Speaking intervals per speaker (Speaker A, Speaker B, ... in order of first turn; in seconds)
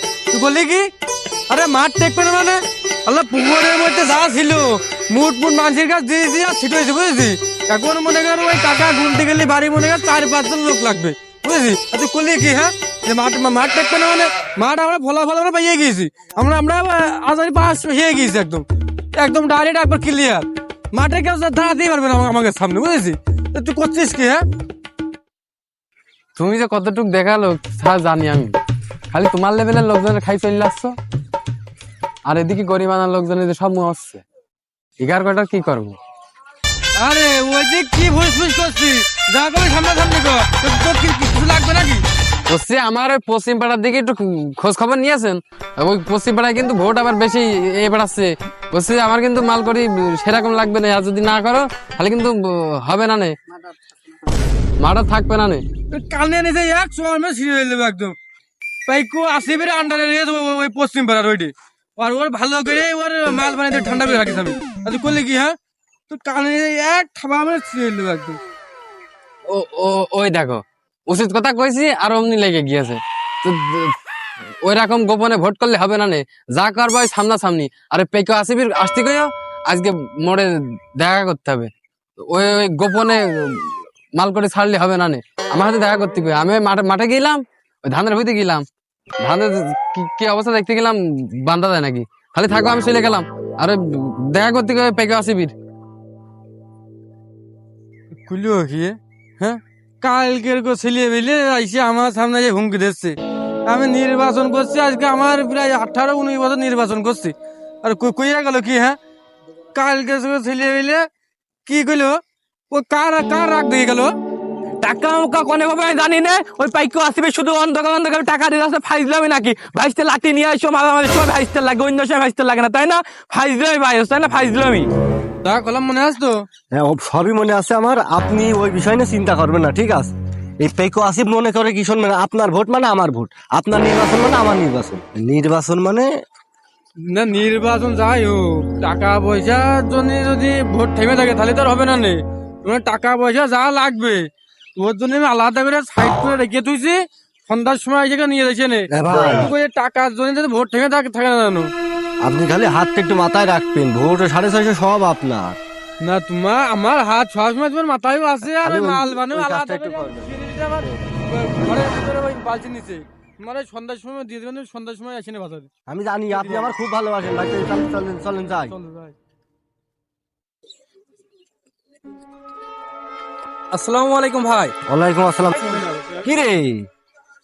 Speaker A: 0.3-0.9, 1.5-18.6, 19.2-24.4, 37.0-42.0, 55.9-58.1, 58.9-65.5, 66.1-68.4, 98.1-109.0, 109.8-111.1, 111.7-112.2, 112.7-114.1, 125.4-126.4, 137.1-144.2, 144.8-151.7, 156.0-165.7, 166.3-166.7, 168.7-169.1
Speaker B: 26.4-28.6, 29.1-31.0, 32.3-34.2, 35.0-36.0, 42.5-53.3, 54.8-55.6, 69.5-73.9, 74.6-81.7, 82.3-88.7, 89.2-95.5
Speaker C: 114.8-124.9, 173.7-174.7
Speaker D: 126.7-136.1, 148.9-149.5, 152.2-155.6, 158.4-160.3, 165.9-168.7, 174.9-176.9